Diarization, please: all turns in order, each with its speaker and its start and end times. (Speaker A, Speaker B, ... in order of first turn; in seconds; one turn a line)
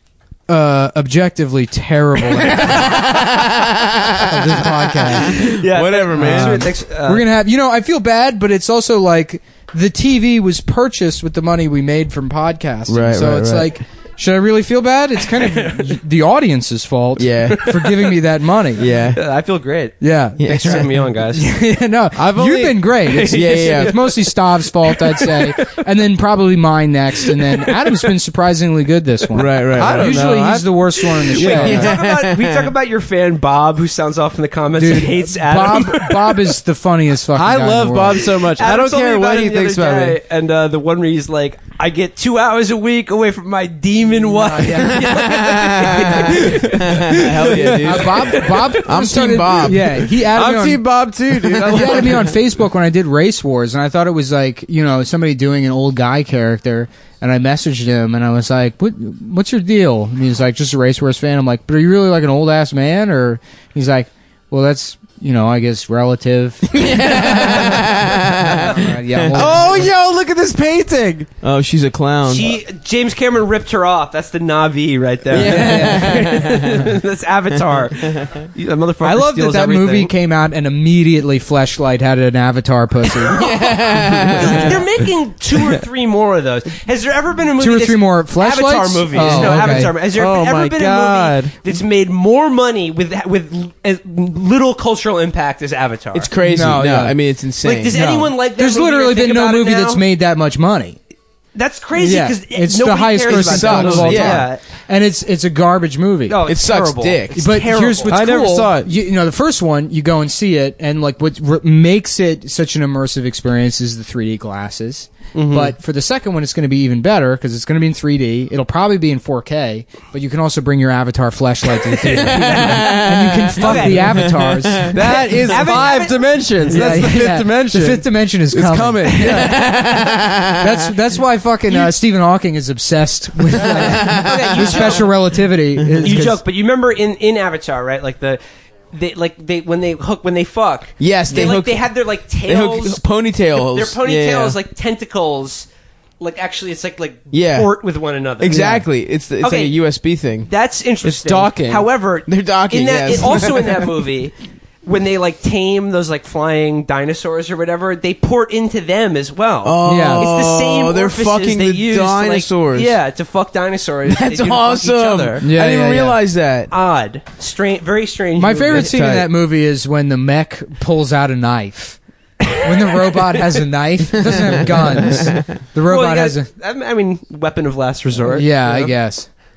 Speaker A: 0.5-3.0
Speaker B: 2.4-6.7
Speaker A: 4.2-18.9
Speaker C: 5.4-7.2
Speaker B: 12.9-13.8
Speaker C: 15.5-15.8
Speaker B: 17.2-18.0
Speaker B: 18.8-19.2
Speaker C: 19.0-21.4
Speaker A: 20.0-31.9
Speaker B: 20.4-21.0
Speaker D: 22.1-22.9
Speaker C: 23.0-24.2
Speaker B: 23.3-24.0
Speaker C: 24.8-25.5
Speaker C: 27.4-27.9
Speaker B: 29.3-30.1
Speaker D: 29.7-31.9
Speaker C: 31.3-36.5
Speaker B: 31.5-32.7
Speaker A: 34.8-38.2
Speaker D: 37.4-40.2
Speaker C: 38.6-47.2
Speaker A: 44.3-45.1
Speaker B: 44.8-50.0
Speaker D: 46.2-48.8
Speaker A: 47.8-50.9
Speaker D: 50.2-52.4
Speaker A: 51.5-69.9
Speaker B: 66.7-69.5
Speaker D: 69.3-71.3
Speaker B: 71.4-72.6
Speaker C: 72.3-80.1
Speaker B: 75.3-76.9
Speaker A: 75.4-76.3
Speaker B: 78.1-78.3
Speaker A: 79.0-83.4
Speaker B: 83.3-84.9
Speaker C: 84.3-96.3
Speaker A: 87.6-90.0
Speaker D: 89.2-91.6
Speaker B: 96.1-98.0
Speaker A: 96.4-97.2
Speaker C: 97.6-100.0
Speaker A: 97.9-101.0
Speaker C: 101.5-104.6
Speaker A: 102.0-106.4
Speaker B: 103.3-104.5
Speaker C: 106.3-108.4
Speaker B: 106.4-107.4
Speaker A: 107.3-125.0
Speaker D: 108.1-108.9
Speaker D: 115.3-115.8
Speaker B: 122.0-125.1
Speaker C: 123.6-124.2
Speaker D: 124.9-129.7
Speaker C: 124.9-126.2
Speaker A: 126.7-136.4
Speaker B: 129.2-130.8
Speaker B: 133.5-135.0
Speaker C: 134.0-135.1
Speaker B: 135.8-136.1
Speaker C: 136.0-138.4
Speaker C: 138.9-143.0
Speaker B: 141.0-144.6
Speaker C: 143.7-145.7
Speaker C: 146.2-148.8
Speaker B: 147.3-147.8
Speaker B: 148.4-150.5
Speaker A: 148.5-148.8
Speaker C: 149.4-149.8
Speaker C: 150.4-165.4
Speaker D: 151.0-151.9
Speaker B: 152.3-153.9
Speaker B: 159.6-163.0
Speaker A: 159.8-160.3
Speaker B: 164.1-166.7
Speaker A: 165.4-166.2
Speaker C: 166.7-168.9
Speaker A: 168.4-172.0
Speaker B: 168.6-169.3
Speaker A: 172.6-176.5
Speaker B: 174.3-175.5
Speaker C: 175.9-178.9
Speaker A: 178.3-179.3